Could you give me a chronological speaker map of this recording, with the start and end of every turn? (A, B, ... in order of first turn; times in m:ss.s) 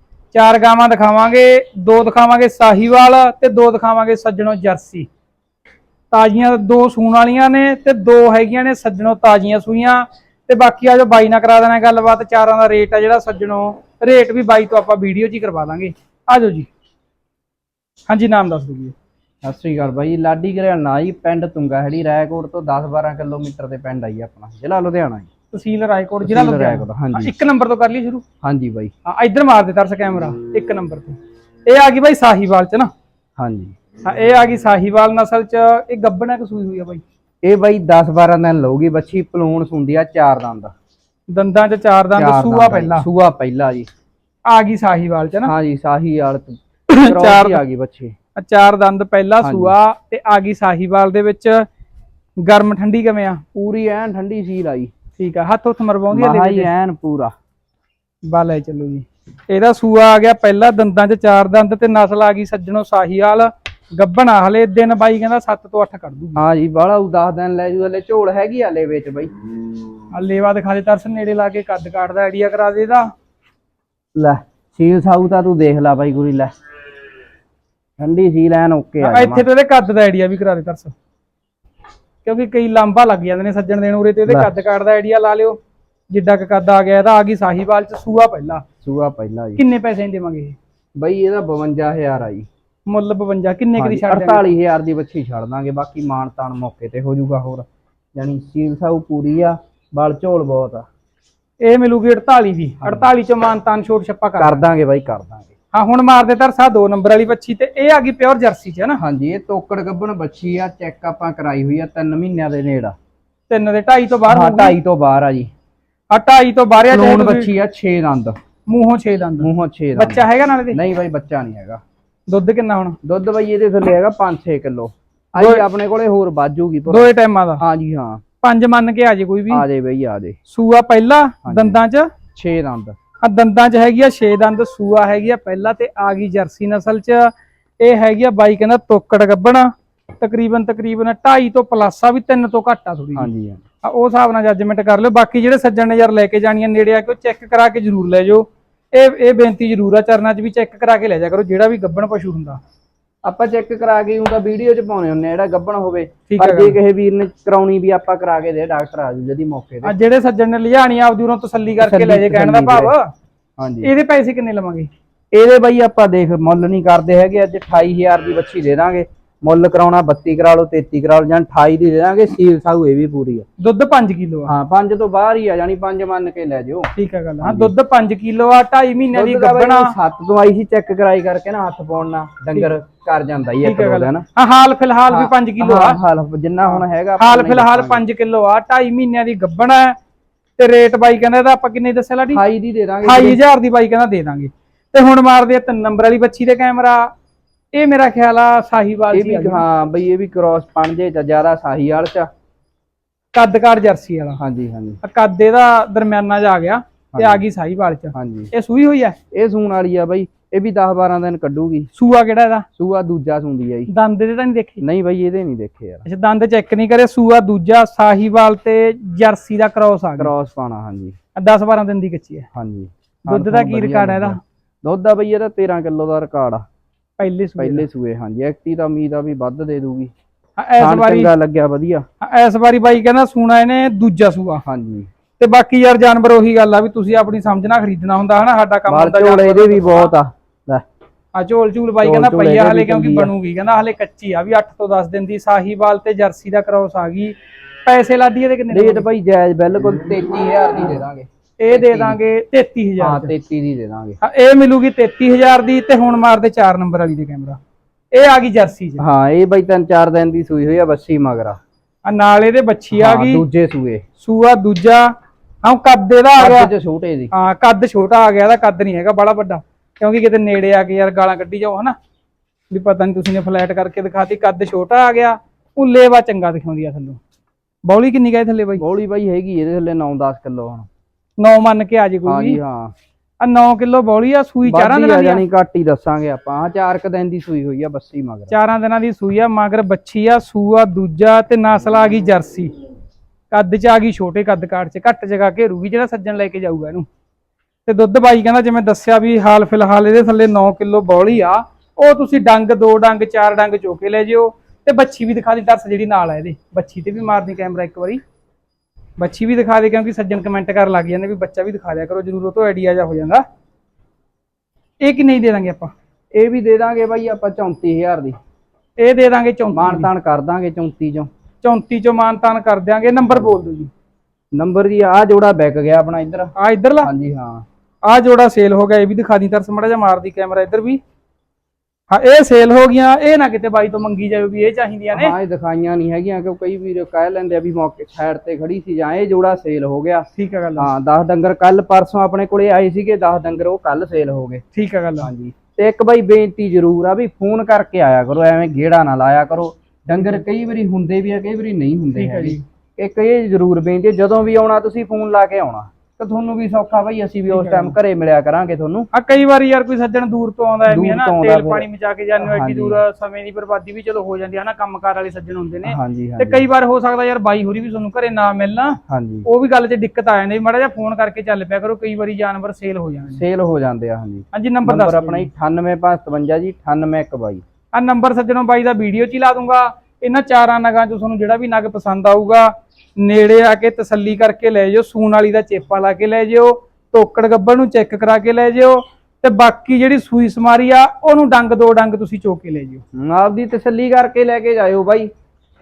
0:00.3-0:05.1 A
0:06.1-0:16.7 A
0:18.1-0:18.9 A
0:19.4-0:25.3 B
0:25.5-0:28.2 A
0:26.2-0:27.3 B
0:28.4-0:28.9 B
0:29.0-0:32.9 A
0:33.4-0:33.8 B
0:34.0-0:37.0 A
0:37.4-0:40.7 B
0:41.3-0:43.0 A
0:42.1-0:43.9 B
0:44.5-0:45.5 A
0:45.4-0:48.1 B
0:46.9-0:47.6 A
0:48.4-0:51.6 A
0:49.4-0:49.7 B
0:52.4-0:53.4 A
0:53.5-0:54.9 B
0:55.2-0:56.7 A
0:56.1-0:57.3 B
0:58.2-1:06.4 A
1:06.4-1:09.3 B
1:10.1-1:13.1 A
1:14.1-1:16.5 B
1:18.0-1:19.4 B
1:19.0-1:20.9 A
1:22.2-1:25.6 A
1:24.3-1:24.5 B
1:26.1-1:28.6 A
1:28.8-1:29.6 B
1:29.6-1:30.6 A
1:31.0-1:32.5 B
1:32.9-1:34.5 A
1:33.8-1:40.8 B
1:41.6-1:44.6 A
1:42.8-1:43.1 B
1:44.4-1:45.5 B
1:45.7-1:49.0 A
1:49.0-1:53.0 B
1:53.5-1:54.8 A
1:54.3-1:55.5 B
1:56.1-1:57.5 A
1:56.9-1:58.4 B
1:58.7-2:00.8 A
1:59.4-2:01.8 B
2:02.3-2:03.0 A
2:03.0-2:08.2 B
2:05.4-2:05.7 A
2:06.9-2:07.6 A
2:08.4-2:09.6 A
2:09.5-2:10.4 B
2:10.5-2:12.1 A
2:11.4-2:11.8 B
2:12.3-2:13.0 B
2:13.2-2:23.3 A
2:23.2-2:23.6 B
2:23.8-2:32.6 A
2:33.2-2:39.9 B
2:36.3-2:36.8 A
2:39.8-2:43.1 A
2:41.8-2:42.9 B
2:43.6-2:43.9 B
2:43.8-2:44.9 A
2:45.3-2:53.4 B
2:53.6-2:54.5 A
2:54.5-2:57.7 B
2:57.0-2:59.9 A
2:59.1-3:04.2 B
3:03.6-3:06.0 A
3:05.1-3:08.0 B
3:07.2-3:10.0 A
3:10.6-3:12.4 A
3:12.3-3:13.4 B
3:13.0-3:17.1 A
3:17.7-3:19.6 A
3:19.1-3:22.3 B
3:23.3-3:24.4 A
3:24.4-3:25.0 B
3:25.0-3:29.2 A
3:27.1-3:27.4 B
3:28.1-3:28.5 B
3:29.3-3:31.9 B
3:31.9-3:32.6 A
3:32.8-3:33.9 B
3:33.9-3:34.8 A
3:34.8-3:36.0 B
3:36.0-3:40.3 A
3:40.2-3:41.2 B
3:41.4-3:42.5 A
3:42.5-3:46.6 B
3:43.2-3:44.4 A
3:47.2-3:47.8 A
3:47.6-3:50.1 B
3:50.6-3:51.3 A
3:50.8-3:52.0 B
3:52.2-3:54.6 A
3:54.6-3:55.1 B
3:55.4-4:00.1 A
3:58.9-4:00.8 B
4:01.3-4:09.0 A
4:02.0-4:03.3 B
4:08.7-4:12.2 B
4:11.6-4:13.3 A
4:13.0-4:14.2 B
4:14.2-4:17.6 A
4:18.1-4:19.0 A
4:19.0-4:21.6 B
4:22.0-4:23.4 A
4:22.9-4:24.0 B
4:24.2-4:25.1 A
4:25.6-4:26.7 A
4:26.4-4:27.3 B
4:27.3-4:31.9 A
4:32.7-4:37.2 A
4:37.8-4:38.8 A
4:38.8-4:40.9 B
4:41.4-4:42.6 A
4:42.2-4:42.9 B
4:43.4-4:45.4 A
4:44.6-4:48.6 B
4:48.5-4:52.7 A
4:53.5-4:57.1 A
4:57.8-5:08.2 A
5:09.2-5:13.4 A
5:15.0-5:15.9 A
5:16.3-5:18.4 B
5:19.0-5:20.1 A
5:19.7-5:21.3 B
5:21.6-5:23.9 A
5:24.5-5:27.6 B
5:26.6-5:27.1 A
5:28.0-5:31.0 A
5:32.1-5:35.3 A
5:35.1-5:40.3 B
5:40.3-5:40.9 A
5:40.8-5:44.6 B
5:44.7-5:45.3 A
5:45.2-5:59.1 B
5:52.1-5:52.6 A
5:57.5-5:57.9 A
5:59.1-6:13.4 A
6:00.9-6:01.9 B
6:02.4-6:03.0 B
6:05.8-6:06.7 B
6:09.1-6:09.5 B
6:13.3-6:17.6 B
6:14.5-6:15.5 A
6:17.9-6:33.0 A
6:33.1-6:35.3 B